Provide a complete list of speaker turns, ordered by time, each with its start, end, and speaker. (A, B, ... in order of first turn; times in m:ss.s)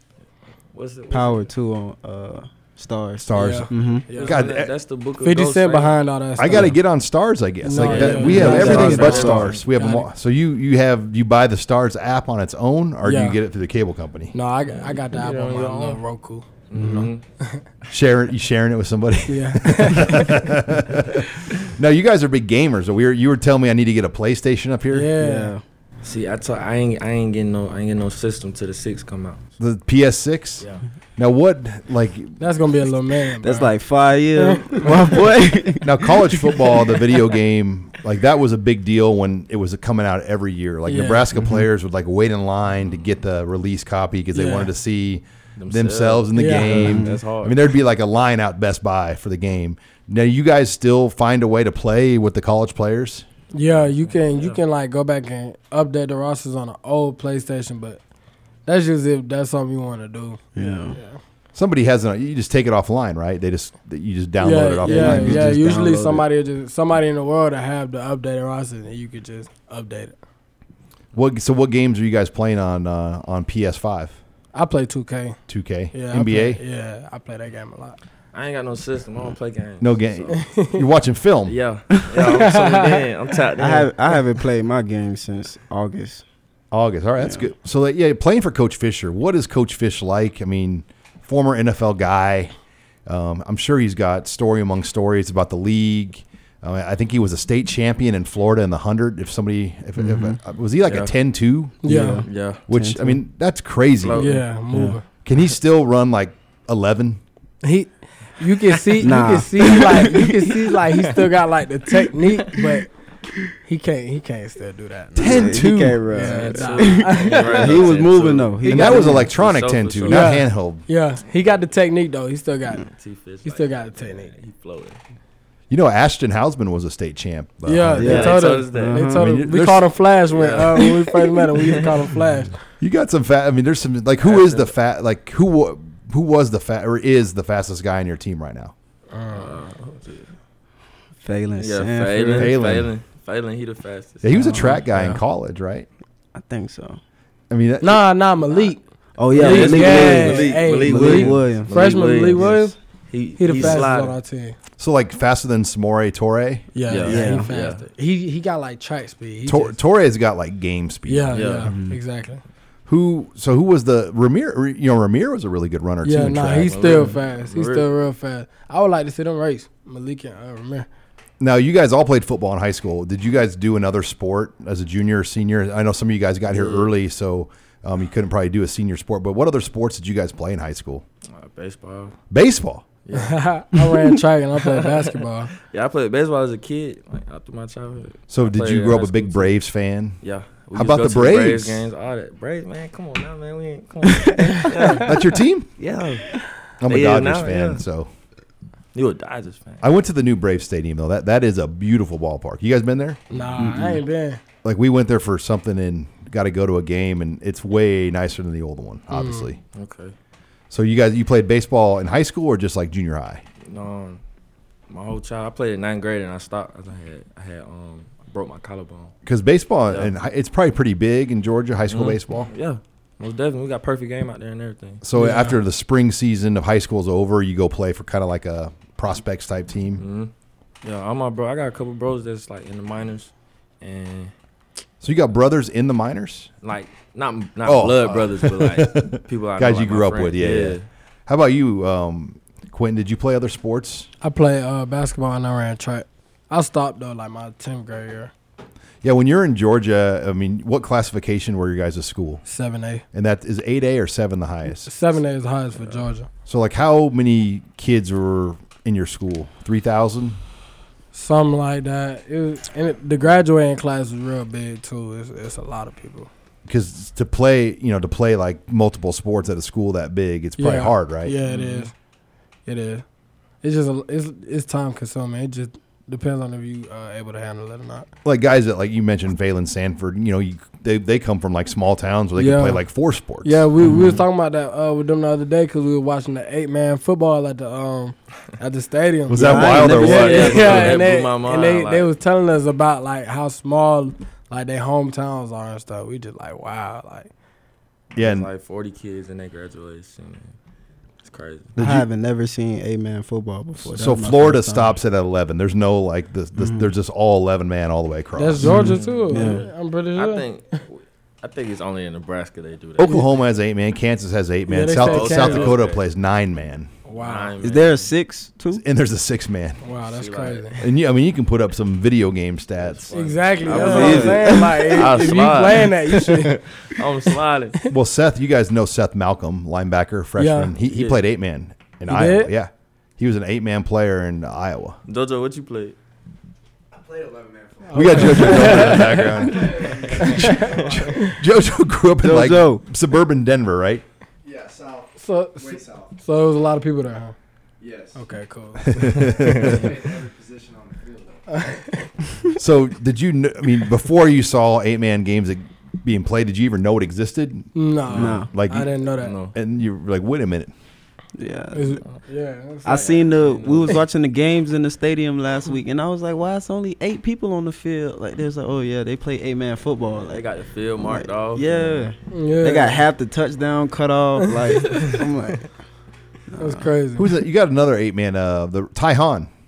0:00.7-0:01.5 A
0:01.1-0:04.1 B
0:03.2-0:04.7 C
0:03.4-0:04.4 D
0:04.1-0:06.0 A
0:05.2-0:06.8 D
0:06.4-0:14.4 C
0:07.6-0:10.1 D
0:07.8-0:09.6 A
0:08.2-0:09.5 B
0:13.0-0:13.4 D
0:14.3-0:16.6 D
0:14.6-0:16.0 A
0:16.7-0:17.2 A
0:16.8-0:17.1 B
0:17.9-0:25.1 C
0:19.3-0:20.4 D
0:24.9-0:25.5 D
0:25.2-0:25.6 B
0:26.0-0:29.5 A
0:29.6-0:30.6 C
0:31.2-0:32.4 C
0:32.4-0:33.7 D
0:33.4-0:36.6 B
0:34.5-0:34.9 D
0:35.8-0:53.3 C
0:40.9-0:41.2 D
0:41.4-0:41.7 B
0:44.3-0:44.7 D
0:45.6-0:47.6 A
0:46.3-0:46.9 D
0:46.6-0:47.2 B
0:53.5-0:58.0 D
0:54.0-0:54.6 A
0:58.7-1:01.2 D
1:00.6-1:01.0 B
1:01.6-1:05.6 C
1:04.4-1:10.2 D
1:04.8-1:06.2 B
1:11.1-1:14.2 C
1:14.5-1:15.4 D
1:15.5-1:16.6 C
1:15.9-1:18.0 D
1:18.3-1:20.4 A
1:19.8-1:21.6 C
1:20.4-1:20.8 D
1:21.5-1:23.9 A
1:22.3-1:23.1 D
1:23.6-1:26.2 B
1:26.7-1:32.5 C
1:27.2-1:27.4 B
1:33.1-1:41.9 C
1:40.0-1:40.4 B
1:40.8-1:41.1 A
1:41.8-1:42.2 D
1:41.8-1:43.2 B
1:42.2-1:42.6 A
1:42.7-1:44.4 C
1:44.0-1:44.4 A
1:44.2-1:45.0 D
1:44.7-1:45.0 B
1:45.2-1:47.2 C
1:47.6-1:52.9 D
1:49.0-1:50.6 B
1:53.6-1:57.9 D
1:55.2-1:56.0 C
1:55.2-1:59.3 B
1:56.1-2:00.3 A
1:58.6-1:59.2 D
1:58.7-2:00.8 C
2:00.1-2:02.9 D
2:02.8-2:05.0 A
2:03.4-2:04.3 D
2:05.7-2:08.4 C
2:07.7-2:12.6 D
2:08.0-2:09.3 B
2:08.0-2:09.1 A
2:09.2-2:10.0 C
2:10.3-2:10.9 A
2:12.8-2:18.7 C
2:14.2-2:14.7 A
2:19.1-2:19.6 D
2:19.3-2:20.4 A
2:21.2-2:22.6 B
2:21.6-2:24.5 A
2:22.4-2:22.9 C
2:24.2-2:25.9 C
2:24.6-2:25.2 D
2:26.4-2:27.0 B
2:27.5-2:28.0 C
2:27.8-2:32.8 D
2:29.2-2:32.6 B
2:29.3-2:34.2 A
2:33.4-2:34.6 D
2:34.8-2:36.7 C
2:36.8-2:39.8 D
2:36.9-2:37.8 A
2:37.1-2:37.5 B
2:39.5-2:41.5 C
2:41.1-2:42.4 D
2:41.3-2:41.7 A
2:41.7-2:42.0 B
2:42.9-2:47.1 C
2:46.0-2:50.9 D
2:46.7-2:47.9 A
2:51.4-3:01.0 C
2:56.5-2:56.9 A
3:01.3-3:02.2 A
3:02.3-3:02.9 C
3:03.0-3:03.4 A
3:03.1-3:05.5 D
3:04.8-3:05.1 A
3:05.7-3:09.6 A
3:08.3-3:10.2 C
3:10.2-3:15.2 A
3:10.7-3:11.9 C
3:14.7-3:15.1 D
3:15.0-3:15.7 C
3:15.8-3:17.8 A
3:16.8-3:18.1 C
3:18.9-3:19.9 A
3:19.8-3:23.2 C
3:23.3-3:24.4 D
3:23.6-3:24.0 B
3:24.6-3:29.6 C
3:29.1-3:29.5 D
3:29.7-3:30.1 A
3:30.7-3:33.4 C
3:33.6-3:34.2 A
3:34.9-3:39.1 A
3:39.2-3:42.5 C
3:41.9-3:45.0 A
3:45.0-3:50.0 C
3:45.2-3:45.6 D
3:50.0-3:50.3 A
3:50.8-3:54.3 A
3:55.0-3:56.5 C
3:56.6-4:00.9 A
3:57.6-4:04.1 C
4:04.2-4:08.3 D
4:09.0-4:12.4 C
4:12.5-4:13.0 D
4:13.1-4:14.9 C
4:14.8-4:16.3 D
4:15.8-4:16.0 A
4:16.5-4:20.4 C
4:21.1-4:26.3 D
4:26.7-4:31.4 C
4:30.6-4:31.9 D
4:31.5-4:31.9 A
4:32.7-4:33.0 D
4:33.6-4:38.1 D
4:38.2-4:43.6 C
4:42.4-4:42.8 D
4:43.4-4:57.3 D
4:49.3-4:51.0 C
4:49.3-4:51.0 B
4:49.8-4:52.1 A
4:58.1-4:58.5 C
4:58.2-5:00.6 A
5:01.2-5:01.7 A
5:01.8-5:04.9 B
5:01.8-5:02.1 C
5:03.8-5:09.0 C
5:06.6-5:06.9 B
5:08.4-5:10.8 D
5:08.6-5:09.7 B
5:08.8-5:09.6 A
5:10.2-5:13.2 A
5:13.0-5:16.9 C
5:14.7-5:15.8 D
5:15.0-5:16.0 A
5:17.1-5:17.5 D
5:17.2-5:18.1 A
5:17.6-5:18.8 B
5:18.7-5:19.8 C
5:19.8-5:20.8 D
5:20.0-5:20.9 A
5:20.8-5:23.2 C
5:22.8-5:27.8 A
5:23.1-5:26.6 D
5:23.7-5:25.0 B
5:27.9-5:35.0 C
5:30.4-5:30.7 D
5:30.9-5:31.2 A
5:32.1-5:32.5 D
5:35.1-5:36.0 A
5:37.2-5:45.1 C
5:37.9-5:41.4 D
5:38.6-5:40.9 A
5:42.2-5:42.8 B
5:45.2-5:47.4 D
5:47.8-5:48.1 C
5:48.2-5:49.8 D
5:48.8-5:51.3 C
5:49.4-5:49.9 A
5:51.5-5:52.1 D
5:52.6-5:59.0 C
5:57.8-5:59.4 D
5:58.1-5:58.5 B
5:59.2-5:59.6 A
5:59.5-6:00.7 C
6:01.4-6:02.0 B
6:01.7-6:03.2 D
6:02.8-6:10.5 B
6:02.9-6:04.0 A
6:10.3-6:12.1 A
6:11.0-6:15.7 B
6:12.3-6:13.0 D
6:14.9-6:15.2 A
6:16.5-6:16.9 B
6:16.6-6:17.3 D
6:17.2-6:19.5 C